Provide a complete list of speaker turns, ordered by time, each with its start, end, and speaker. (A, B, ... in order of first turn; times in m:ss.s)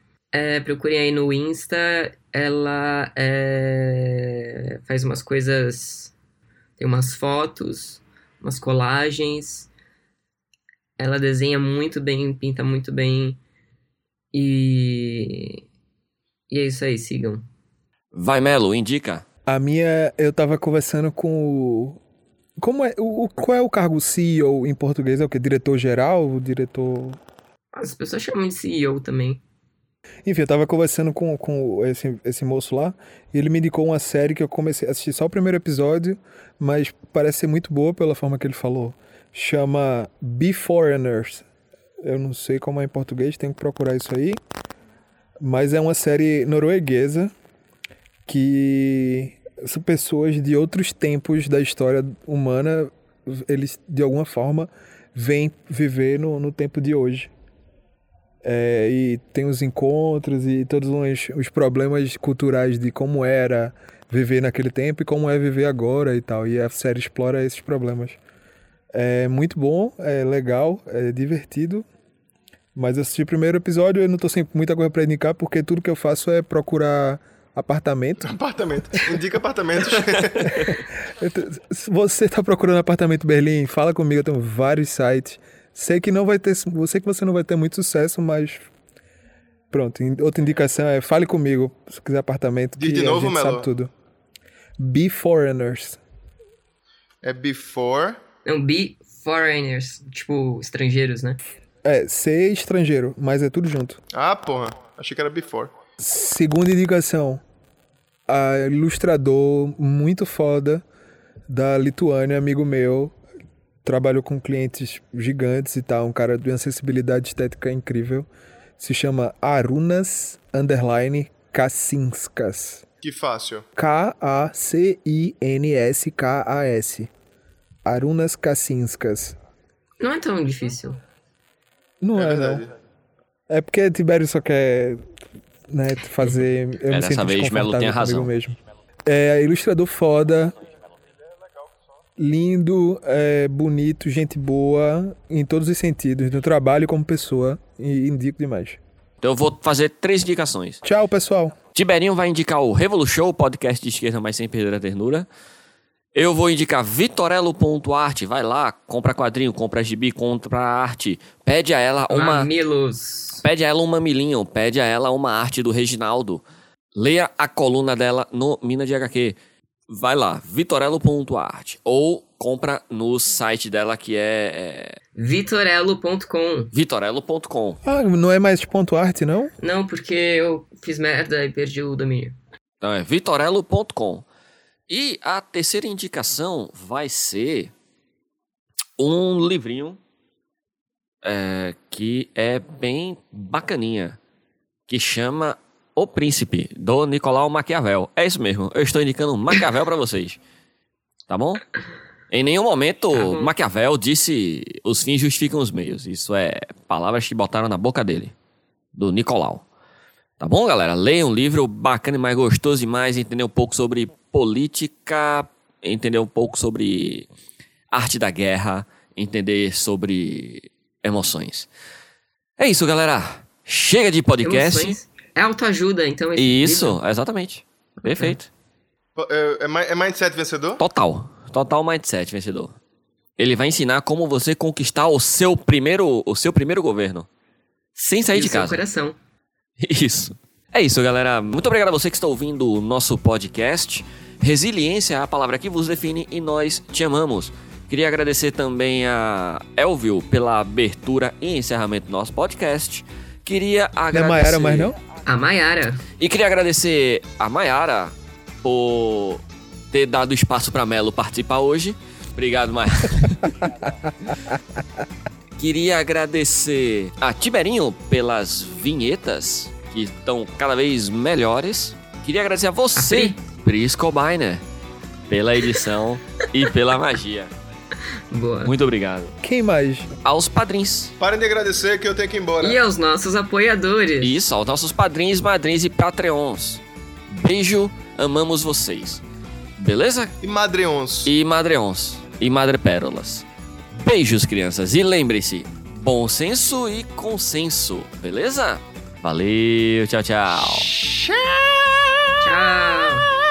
0:00.3-0:06.1 A
0:06.8-0:09.7 A
0:11.0-0:13.4 A
0:14.3-0:15.6 A
0:16.5-0:17.4 A
0:18.1-0:19.2 B
0:19.5-0:22.0 C
0:22.6-0:27.2 C
0:27.8-0:29.4 A
0:30.2-0:41.4 C
0:42.0-0:44.4 C
0:45.4-0:47.3 C
0:48.3-0:57.3 C
0:58.4-1:08.2 C
1:08.9-1:11.9 C
1:12.8-1:18.3 C
1:18.2-1:20.5 D
1:20.6-1:28.7 C
1:29.7-1:33.9 C
1:32.8-1:33.7 D
1:34.8-1:36.0 C
1:37.2-1:38.2 D
1:38.5-1:41.4 A
1:41.8-1:44.0 C
1:44.1-1:45.7 D
1:46.0-1:47.4 C
1:48.3-1:50.8 C
1:51.5-1:53.2 C
1:53.8-1:58.3 C
1:58.8-2:02.8 C
2:03.0-2:03.6 D
2:03.8-2:07.1 C
2:07.8-2:09.4 C
2:10.0-2:11.0 A
2:12.0-2:12.7 C
2:12.2-2:12.7 D
2:13.5-2:15.0 C
2:15.7-2:20.6 C
2:16.9-2:18.3 B
2:22.2-2:28.8 C
2:29.2-2:30.8 B
2:30.8-2:31.6 C
2:31.8-2:35.3 B
2:36.2-2:42.5 B
2:42.1-2:43.4 A
2:43.4-2:46.4 B
2:47.0-2:49.4 B
2:49.9-2:55.0 B
2:55.2-2:56.7 A
2:56.7-2:57.8 B
2:57.8-2:59.5 C
2:59.6-3:02.4 A
3:02.8-3:04.2 B
3:04.9-3:07.7 B
3:09.0-3:10.0 B
3:11.2-3:14.2 B
3:14.9-3:20.4 B
3:21.3-3:21.6 B
3:22.3-3:28.3 B
3:23.1-3:23.5 A
3:29.0-3:29.6 B
3:30.4-3:37.3 B
3:37.9-3:41.7 B
3:42.6-3:45.0 B
3:44.4-3:47.0 A
3:46.4-3:48.5 B
3:49.2-3:50.8 D
3:50.8-3:52.8 B
3:53.4-3:57.3 B
3:58.0-3:58.8 B
3:58.3-3:59.2 A
3:59.8-4:14.9 B
4:14.1-4:15.0 C
4:15.3-4:16.0 A
4:16.2-4:23.5 B
4:25.6-4:34.6 B
4:33.0-4:33.4 A
4:35.3-4:37.5 B
4:38.3-4:38.7 A
4:38.6-4:39.3 B
4:39.4-4:40.2 C
4:40.2-4:41.1 B
4:41.2-4:42.8 D
4:42.6-4:44.4 A
4:44.2-4:49.2 B
4:49.8-4:50.4 B
4:50.4-4:51.3 D
4:51.3-5:00.9 B
5:02.4-5:03.3 A